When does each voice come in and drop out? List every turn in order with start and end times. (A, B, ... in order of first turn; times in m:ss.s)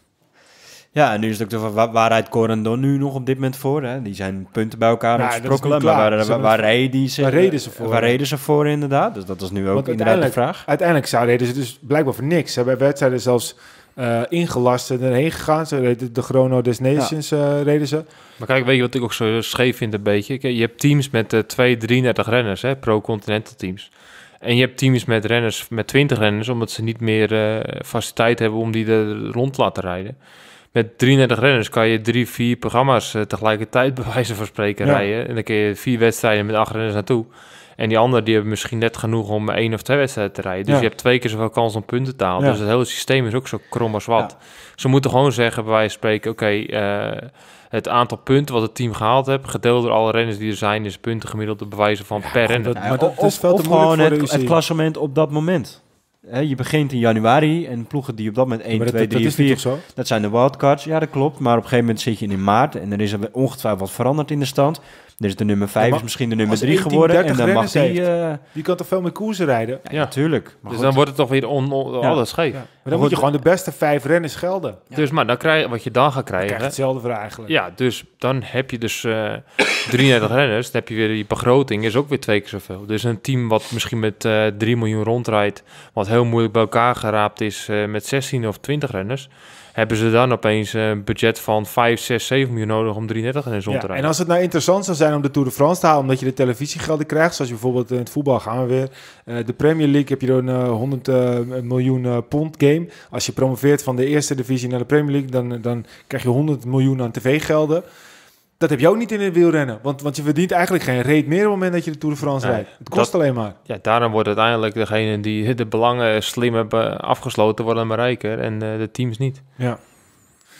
0:00.9-0:10.6 A
0:05.2-0:08.2 B
0:09.7-0:18.0 B
0:18.4-0:30.2 C
0:30.7-0:52.8 C
0:52.2-0:54.6 B
0:52.7-1:08.4 A
0:58.7-0:59.8 B
1:05.8-1:09.8 B
1:09.8-1:11.0 A
1:09.9-1:12.6 C
1:12.0-1:13.3 A
1:12.5-1:14.8 B
1:14.9-1:16.8 C
1:16.4-1:17.5 B
1:17.5-1:34.1 C
1:33.7-1:47.8 B
1:48.6-1:53.5 B
1:52.4-1:59.4 C
1:59.6-1:59.9 B